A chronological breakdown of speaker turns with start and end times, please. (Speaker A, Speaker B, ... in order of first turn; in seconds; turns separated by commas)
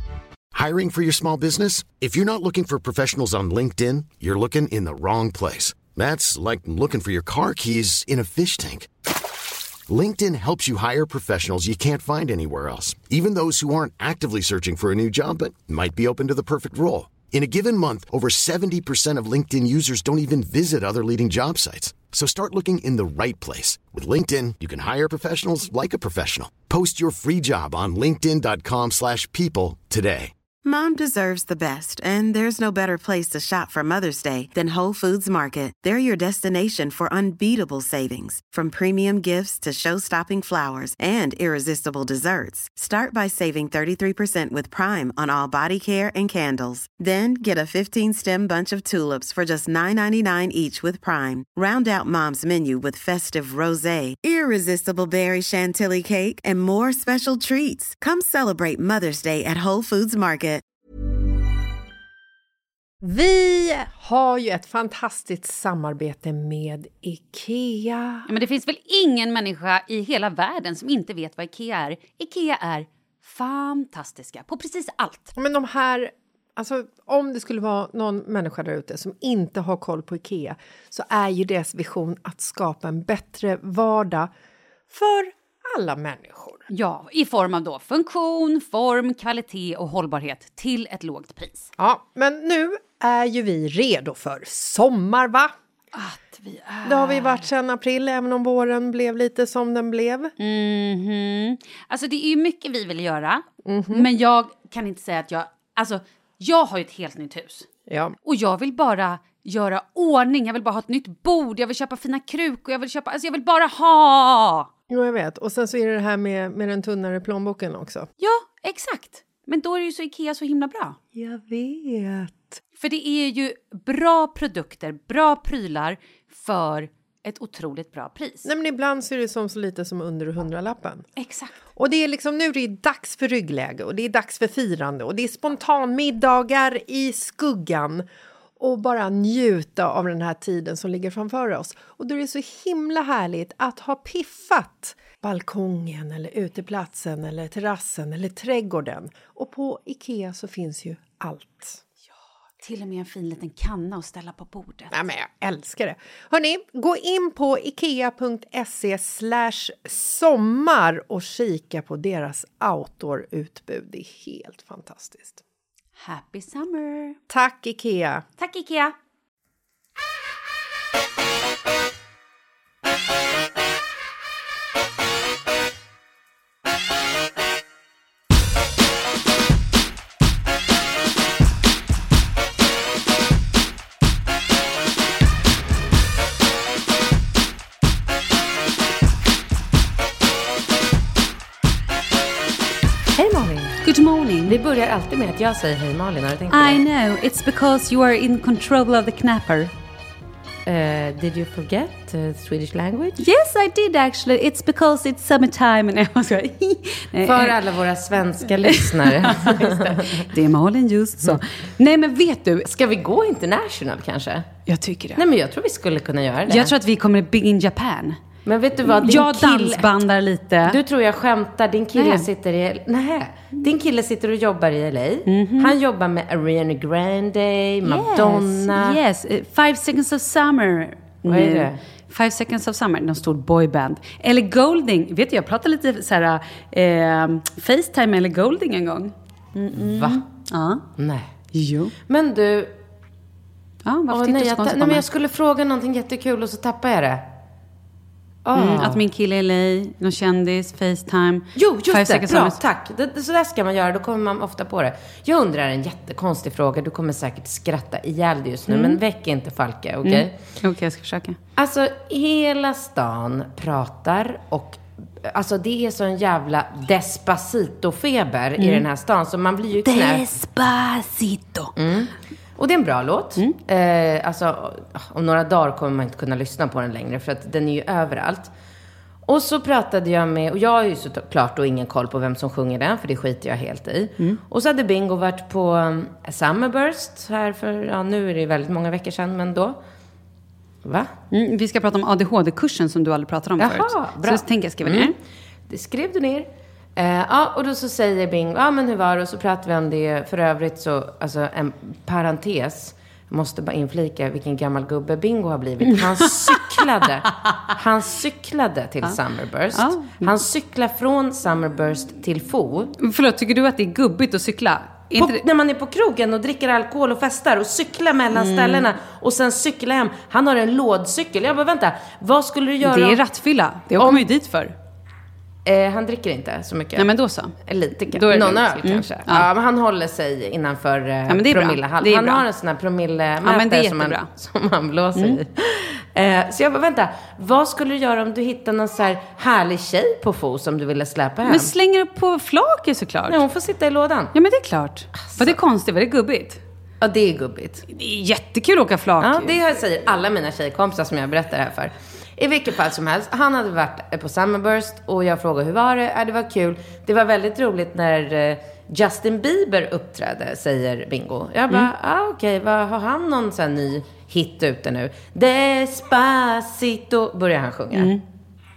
Speaker A: 0.5-8.9, Speaker A: 9.9-30.3, Speaker B: 30.6-60.6, Speaker C: 63.0-68.2, Speaker D: 68.3-75.3, Speaker C: 75.3-84.3, Speaker C: 84.9-86.7, Speaker D: 86.7-91.7, Speaker C: 91.8-95.5, Speaker D: 95.9-97.5, Speaker C: 96.8-100.3, Speaker D: 100.4-107.7, Speaker C: 103.6-104.1, Speaker C: 107.9-108.1, Speaker D: 108.2-114.7, Speaker C: 114.9-118.1, Speaker D: 118.2-121.0, Speaker C: 121.1-122.6, Speaker D: 122.8-128.5, Speaker C: 128.4-131.1, Speaker D: 131.2-131.5, Speaker C: 131.7-138.1, Speaker C: 138.6-151.8, Speaker D: 152.6-154.9, Speaker C: 154.9-165.4, Speaker D: 166.0-167.2, Speaker C: 167.3-168.2, Speaker D: 168.4-168.9, Speaker E: 193.1-193.8, Speaker D: 193.8-194.6, Speaker E: 194.4-196.8, Speaker D: 196.5-199.7, Speaker E: 200.7-203.2, Speaker D: 203.2-207.5, Speaker E: 207.2-210.3, Speaker D: 208.7-212.7, Speaker E: 212.6-214.5, Speaker D: 214.7-215.2, Speaker E: 215.2-216.7, Speaker D: 216.5-218.2, Speaker E: 218.4-220.0, Speaker D: 218.8-220.8, Speaker E: 220.7-229.0, Speaker D: 221.9-222.3, Speaker D: 225.3-225.7, Speaker D: 227.8-240.8, Speaker E: 231.3-231.8, Speaker E: 239.8-240.2, Speaker E: 241.0-241.3, Speaker D: 241.5-241.9, Speaker E: 242.1-242.7, Speaker D: 243.8-245.1, Speaker E: 244.1-247.2, Speaker E: 248.4-249.0, Speaker D: 248.5-252.6, Speaker E: 251.5-260.3, Speaker D: 258.7-259.0, Speaker D: 260.0-261.4, Speaker E: 261.6-270.2, Speaker D: 268.6-268.8, Speaker D: 269.8-271.7, Speaker E: 271.8-278.5, Speaker E: 279.2-289.8, Speaker E: 290.8-291.1, Speaker D: 291.3-295.1, Speaker E: 293.6-295.1, Speaker E: 295.7-312.9, Speaker D: 305.9-306.8, Speaker D: 307.4-307.7, Speaker D: 309.7-310.3, Speaker D: 313.0-315.4, Speaker E: 315.1-323.2, Speaker D: 318.3-318.9, Speaker D: 322.8-324.7, Speaker E: 324.0-324.3, Speaker E: 325.6-327.1, Speaker D: 327.0-327.6, Speaker E: 327.6-341.7, Speaker D: 328.1-329.5, Speaker D: 331.3-332.4, Speaker D: 333.4-334.3, Speaker D: 335.1-335.4, Speaker D: 341.4-343.4, Speaker E: 343.3-344.3, Speaker D: 344.3-346.6, Speaker E: 345.2-345.5, Speaker E: 347.0-347.8, Speaker D: 347.9-349.6, Speaker E: 349.2-368.1, Speaker D: 367.9-368.2